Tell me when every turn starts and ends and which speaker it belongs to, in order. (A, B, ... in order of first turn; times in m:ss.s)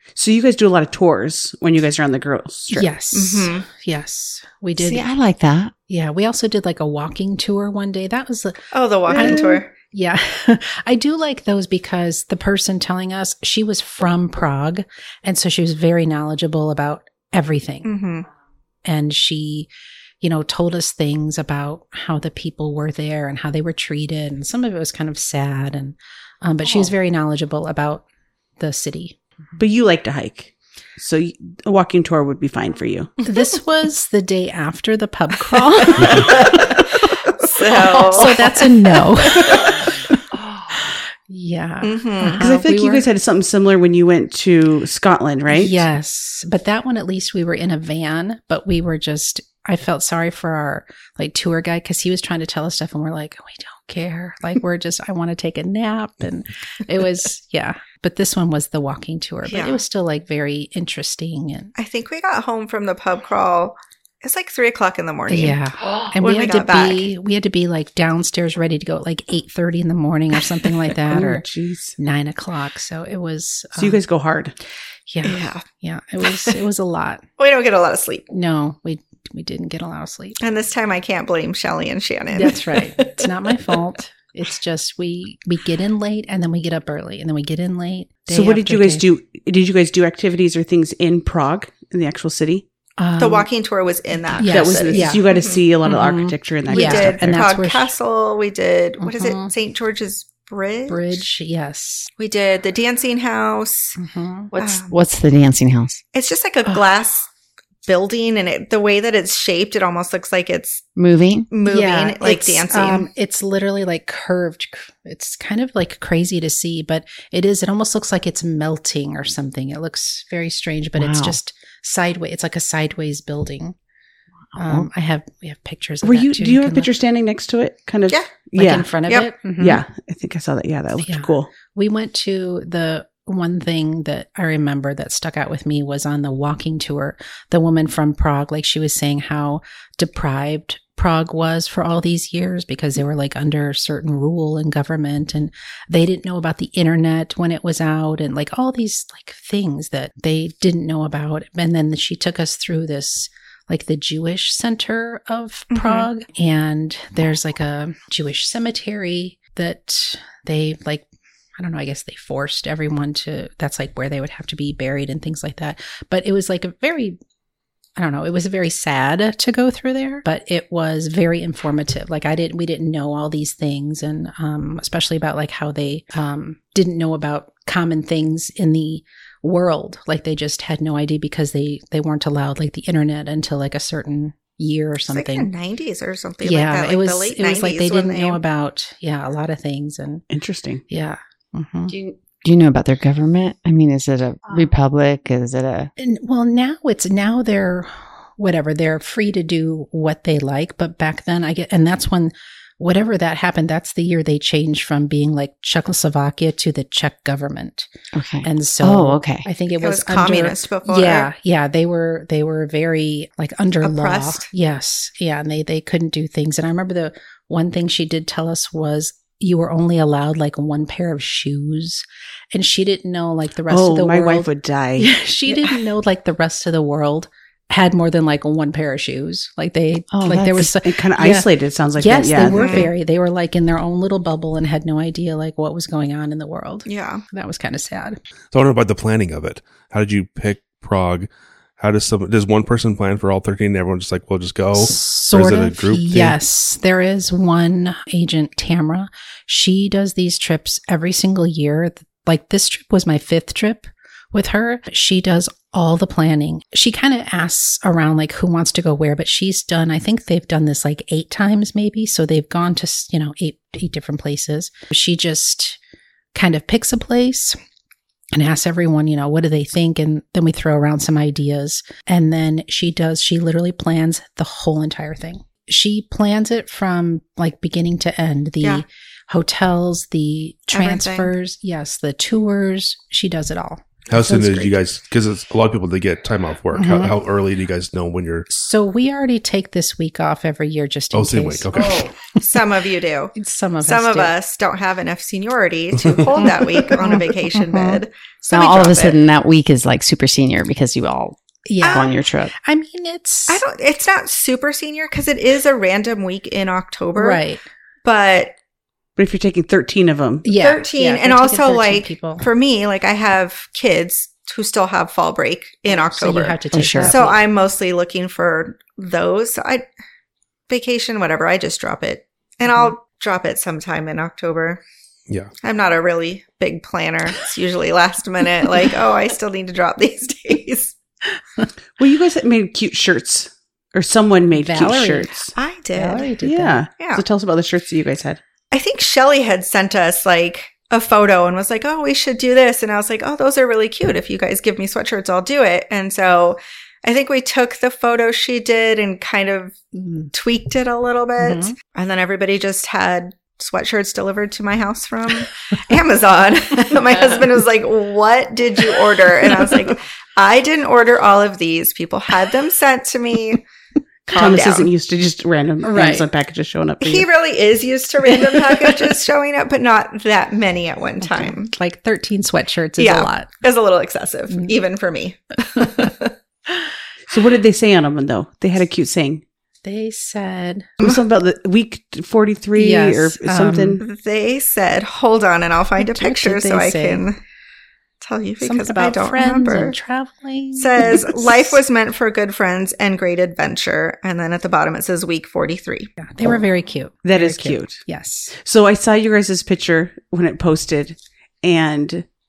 0:00.2-0:02.9 A
0:02.7-0:05.1 B
0:03.1-0:03.6 C
0:04.8-0:05.7 D
0:05.9-0:17.9 B
0:08.7-0:09.7 C
0:09.1-0:09.6 A
0:17.8-0:18.2 C
0:18.8-0:19.7 B
0:20.2-0:28.0 B
0:28.6-0:29.2 B
0:29.6-0:33.1 A
0:33.2-0:40.2 B
0:36.1-0:39.7 C
0:40.7-0:43.0 B
0:41.8-0:42.4 C
0:42.4-0:45.8 A
0:45.5-1:01.7 B
0:59.5-0:59.8 C
1:01.8-1:05.6 C
1:05.3-1:11.4 B
1:06.2-1:07.0 C
1:11.0-1:12.0 A
1:12.0-1:14.0 B
1:13.8-1:14.6 A
1:15.1-1:17.2 B
1:15.2-1:15.6 C
1:16.2-1:16.5 C
1:17.4-1:18.3 C
1:18.3-1:20.4 B
1:20.4-1:23.2 C
1:22.3-1:29.0 B
1:28.3-1:32.6 A
1:33.0-1:33.5 B
1:33.2-1:35.6 C
1:34.3-1:35.2 B
1:34.4-1:37.4 A
1:35.8-1:37.9 B
1:36.7-1:41.1 C
1:39.0-1:39.5 B
1:40.9-1:42.1 B
1:42.2-1:44.0 C
1:44.0-1:44.5 B
1:44.5-1:46.0 D
1:44.6-1:44.9 C
1:46.1-1:47.3 C
1:47.8-1:50.8 C
1:51.0-1:51.5 D
1:51.5-1:53.1 C
1:51.6-2:03.8 B
2:01.0-2:01.4 D
2:04.6-2:06.9 B
2:04.6-2:04.8 D
2:06.0-2:08.9 A
2:08.6-2:09.8 B
2:09.6-2:11.5 A
2:11.0-2:41.1 B
2:35.7-2:36.1 C
2:41.6-2:47.2 B
2:48.0-3:05.5 B
3:05.1-3:08.4 C
3:06.4-3:10.2 B
3:10.3-3:10.8 A
3:10.9-3:11.9 B
3:11.9-3:15.9 D
3:16.0-3:27.9 B
3:28.1-3:29.4 D
3:28.4-3:58.2 B
3:29.8-3:31.3 C
3:33.8-3:34.5 C
3:43.7-3:45.1 A
3:50.1-3:50.7 D
3:50.8-3:52.8 A
3:52.4-3:52.9 C
3:56.9-3:57.2 C
3:58.5-4:06.4 E
4:04.7-4:25.8 B
4:26.3-4:27.6 B
4:28.3-4:44.7 B
4:40.7-4:41.3 C
4:44.1-4:48.5 E
4:46.7-4:47.2 B
4:48.5-4:52.1 B
4:51.1-4:52.1 E
4:51.8-4:59.2 C
4:53.4-4:54.3 B
4:56.3-4:58.0 B
4:58.5-5:02.5 D
5:01.7-5:03.6 B
5:01.8-5:02.2 C
5:03.5-5:07.4 C
5:07.2-5:07.6 B
5:08.0-5:08.5 C
5:09.2-5:10.5 A
5:10.4-5:12.5 B
5:10.6-5:19.8 C
5:15.9-5:17.4 B
5:16.7-5:17.2 D
5:20.7-5:24.8 C
5:25.6-5:31.0 C
5:32.0-5:35.5 A
5:34.5-5:35.3 B
5:35.5-5:36.3 C
5:35.9-5:36.8 B
5:36.4-5:38.4 A
5:37.0-5:37.2 C
5:38.7-5:49.8 C
5:50.0-5:50.3 B
5:50.3-6:03.6 C
5:51.4-5:51.7 B
6:04.3-6:04.9 C
6:04.3-6:07.3 A
6:05.8-6:06.2 B
6:07.0-6:11.7 C
6:11.2-6:13.5 B
6:13.0-6:16.3 C
6:17.3-6:19.4 A
6:19.8-6:21.0 B
6:21.0-6:24.0 A
6:22.8-6:24.0 B
6:24.0-6:27.4 C
6:26.0-6:27.2 B
6:28.2-6:29.9 C
6:28.6-6:31.8 B
6:30.8-6:36.1 C
6:36.2-6:38.5 B
6:37.2-6:38.0 A
6:38.5-6:42.2 A